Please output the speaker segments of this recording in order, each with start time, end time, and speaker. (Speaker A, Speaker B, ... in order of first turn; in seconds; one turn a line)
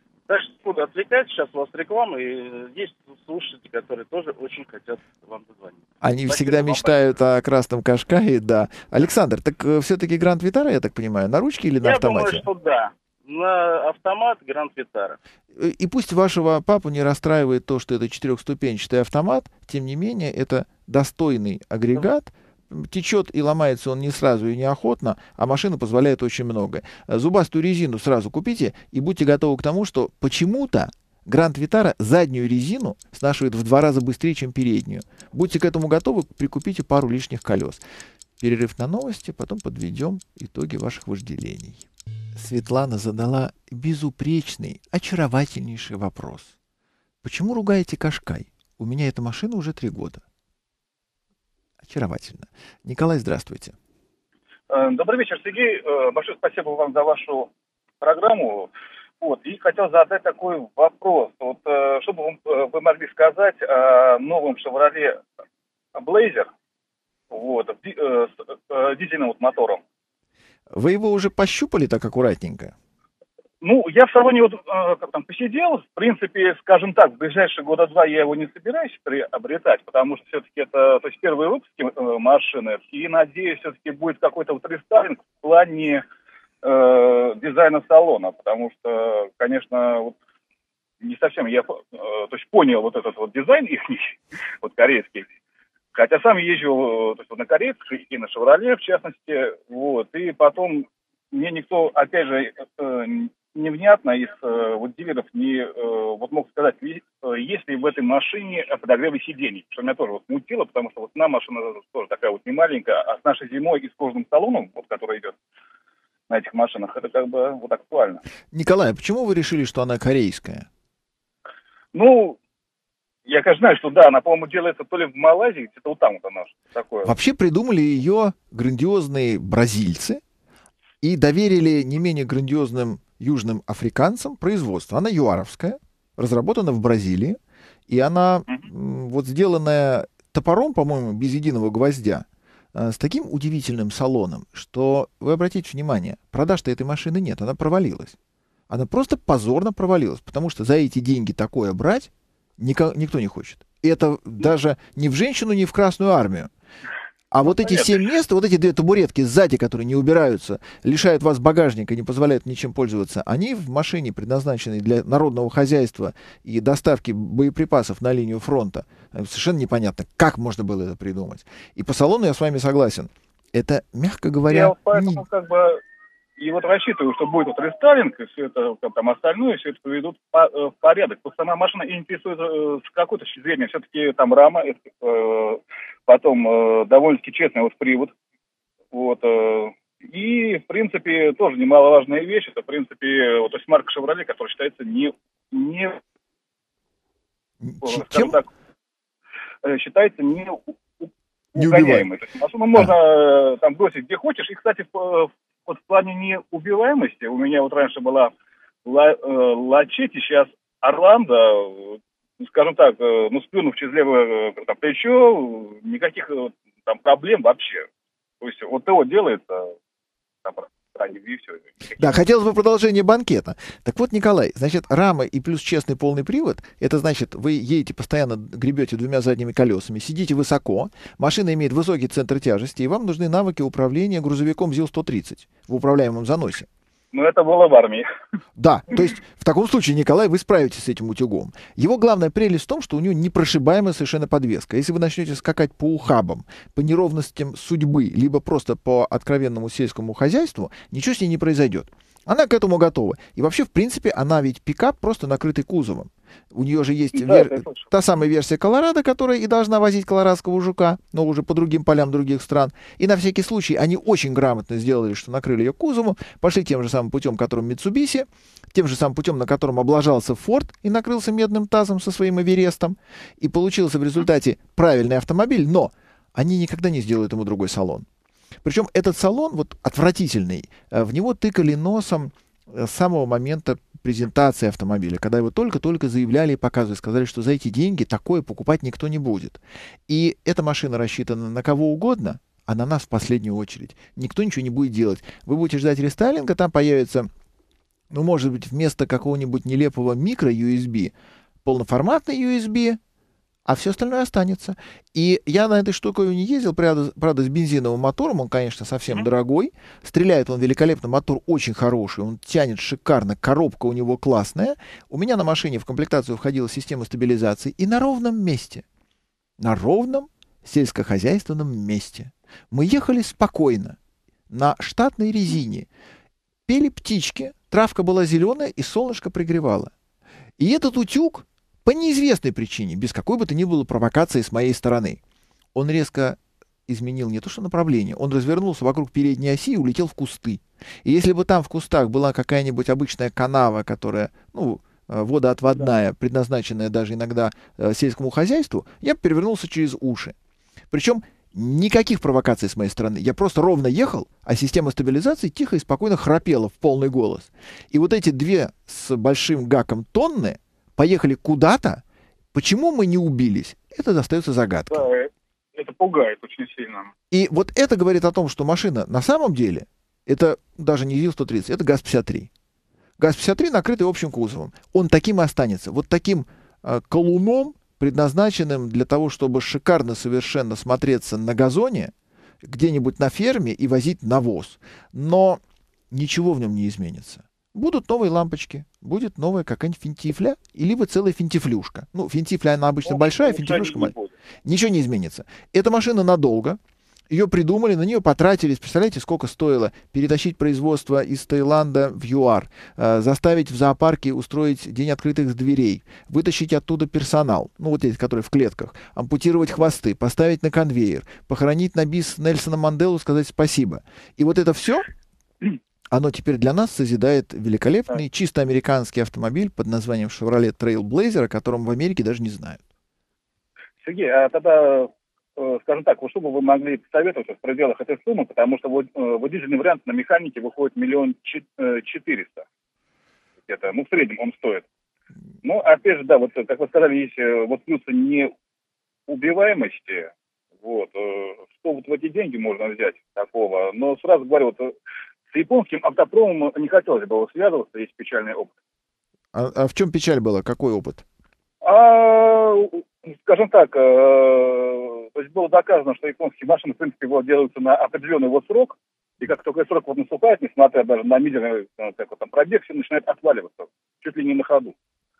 Speaker A: 0.3-7.0
Speaker B: 6.0-12.4
Speaker A: 11.8-15.2
Speaker B: 15.6-37.8
Speaker B: 38.4-46.5
Speaker B: 47.2-50.2
Speaker B: 51.8-53.7
Speaker C: 54.7-57.5
Speaker C: 58.0-65.2
Speaker C: 65.9-66.5
Speaker C: 67.3-69.8
Speaker B: 70.8-72.7
Speaker C: 73.6-86.0
Speaker C: 86.6-90.2
Speaker C: 91.0-95.3
Speaker C: 95.9-115.3
Speaker C: 116.3-118.2
Speaker B: 118.5-120.7
Speaker C: 121.9-122.4
Speaker C: 123.2-127.1
Speaker B: 127.0-130.2
Speaker B: 131.0-137.4
Speaker B: 137.9-148.2
Speaker B: 148.7-156.5
Speaker B: 157.3-175.2
Speaker C: 157.6-157.9
Speaker C: 174.5-175.8
Speaker C: 176.4-188.1
Speaker C: 188.9-196.0
Speaker B: 197.6-198.4
Speaker C: 197.8-198.5
Speaker C: 199.6-208.3
Speaker B: 201.6-202.1
Speaker C: 208.8-217.9
Speaker C: 218.4-219.7
Speaker C: 220.4-222.2
Speaker B: 222.0-236.7
Speaker C: 237.1-238.0
Speaker B: 238.6-278.1
Speaker C: 257.1-257.8
Speaker B: 278.6-297.3
Speaker B: 298.1-303.0
Speaker B: 303.6-318.8
Speaker B: 319.6-324.0
Speaker B: 324.5-325.9
Speaker B: 326.7-329.9
Speaker B: 330.6-335.2
Speaker B: 335.7-350.3
Speaker B: 350.9-362.0
Speaker B: 362.5-365.1
Speaker C: 364.9-367.1
Speaker B: 367.3-372.5
Speaker B: 373.2-382.1
Speaker B: 382.6-385.6
Speaker B: 386.1-394.1
Speaker C: 393.0-394.3
Speaker B: 394.6-396.8
Speaker B: 397.3-415.1
Speaker B: 416.1-422.8
Speaker C: 424.0-432.6
Speaker C: 433.7-434.8
Speaker C: 435.6-438.5
Speaker C: 439.3-440.3
Speaker C: 440.8-444.9
Speaker C: 445.5-448.7
Speaker B: 449.5-451.2
Speaker C: 451.8-464.9